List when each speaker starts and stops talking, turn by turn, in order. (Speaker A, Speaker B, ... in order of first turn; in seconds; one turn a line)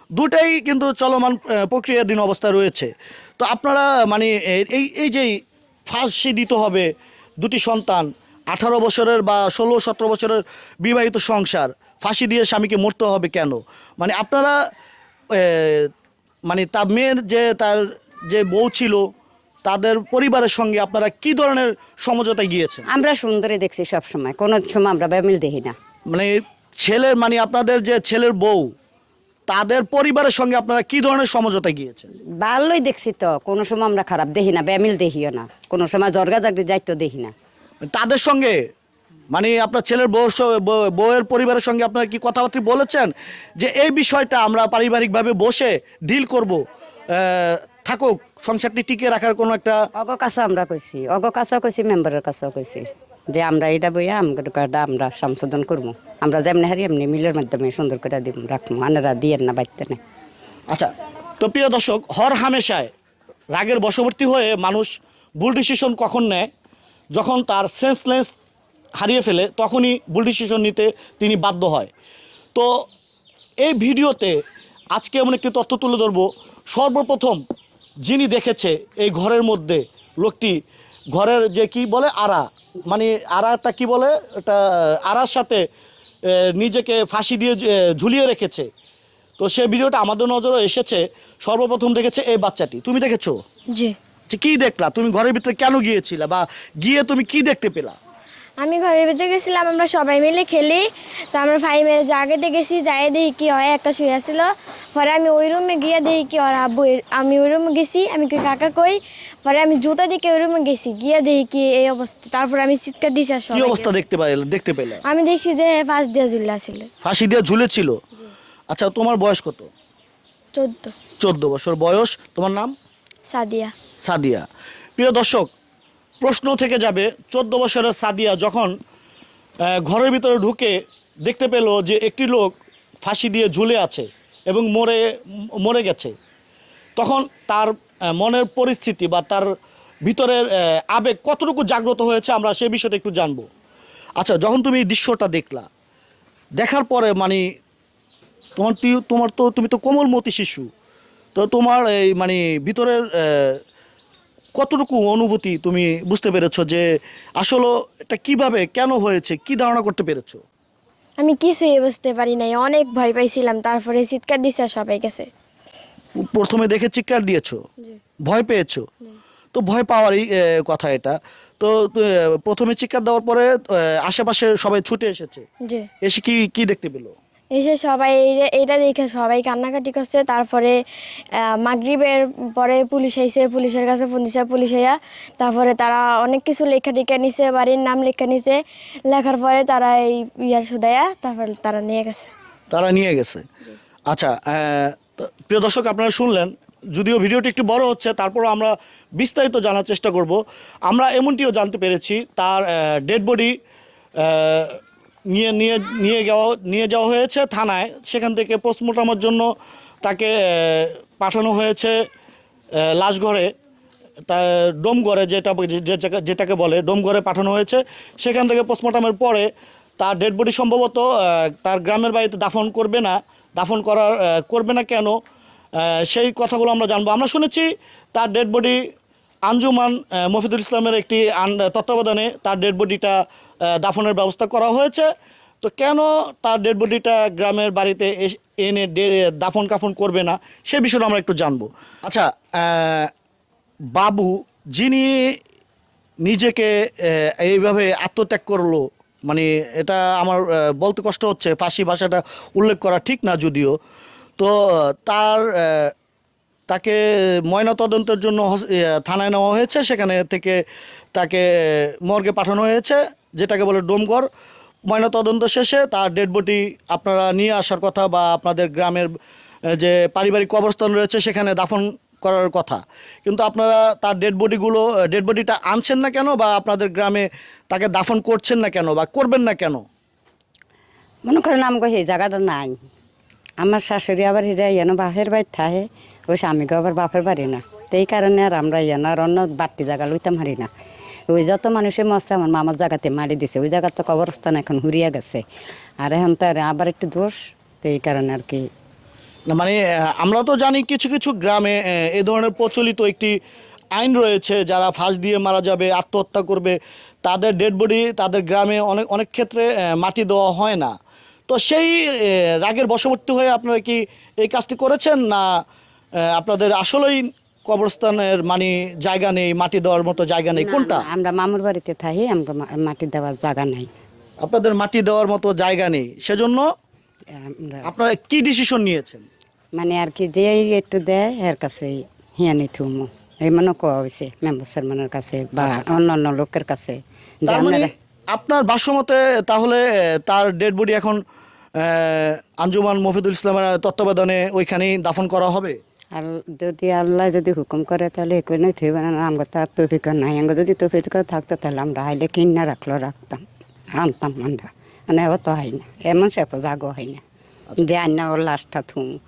Speaker A: 0.1-5.3
Speaker A: 5.9-6.9
Speaker A: 7.4-14.5
Speaker A: 15.3-15.9
Speaker A: 16.4-19.0
Speaker A: 19.6-22.8
Speaker B: 22.9-25.7
Speaker A: 26.1-28.7
Speaker A: 29.5-32.1
Speaker B: 32.4-37.3
Speaker A: 37.9-38.6
Speaker A: 39.3-46.6
Speaker A: 47.1-49.8
Speaker B: 50.0-60.0
Speaker A: 60.7-62.9
Speaker A: 63.5-66.5
Speaker A: 67.1-68.3
Speaker A: 69.0-71.9
Speaker A: 73.6-74.3
Speaker A: 74.9-77.4
Speaker A: 78.0-80.5
Speaker A: 81.1-85.6
Speaker A: 86.3-88.7
Speaker A: 89.4-93.4
Speaker A: 94.3-98.0
Speaker C: 98.6-113.9
Speaker A: 113.5-115.0
Speaker C: 115.0-116.9
Speaker A: 117.0-117.9
Speaker A: 118.7-119.7
Speaker C: 120.5-120.9
Speaker A: 121.2-122.7
Speaker C: 123.3-123.7
Speaker A: 124.0-125.5
Speaker A: 126.2-128.7
Speaker A: 129.7-135.0
Speaker A: 135.6-136.1
Speaker A: 137.0-139.5
Speaker A: 140.0-143.4
Speaker A: 144.2-145.7
Speaker A: 146.6-147.4
Speaker A: 148.6-150.7
Speaker A: 151.3-153.6
Speaker A: 154.5-156.8
Speaker A: 157.4-160.4
Speaker C: 161.2-165.3
Speaker A: 166.2-167.6
Speaker A: 168.2-168.8
Speaker A: 169.5-175.4
Speaker A: 176.0-177.1
Speaker C: 177.5-180.8
Speaker C: 181.4-192.3
Speaker A: 192.7-193.4
Speaker A: 194.1-203.5
Speaker A: 204.2-204.8
Speaker A: 205.3-209.4
Speaker A: 210.0-211.9
Speaker A: 212.8-213.5
Speaker A: 214.3-219.5
Speaker A: 220.0-225.1
Speaker A: 225.8-228.8
Speaker A: 229.5-235.1
Speaker A: 235.6-243.1
Speaker A: 243.9-245.3
Speaker A: 246.2-253.7
Speaker A: 254.4-255.9
Speaker A: 256.7-260.6
Speaker A: 261.1-264.3
Speaker A: 264.9-269.1
Speaker A: 269.7-279.8
Speaker B: 281.2-282.7
Speaker B: 283.6-290.7
Speaker B: 291.3-295.4
Speaker B: 296.0-298.6
Speaker A: 299.5-303.3
Speaker A: 303.9-310.9
Speaker A: 311.5-315.5
Speaker A: 316.3-321.0
Speaker B: 320.6-323.9
Speaker A: 324.4-326.6
Speaker B: 327.3-327.9
Speaker A: 327.8-329.2
Speaker B: 329.8-337.9
Speaker A: 337.5-341.2
Speaker A: 341.8-345.8
Speaker B: 346.1-353.4
Speaker B: 354.0-357.2
Speaker B: 357.8-359.1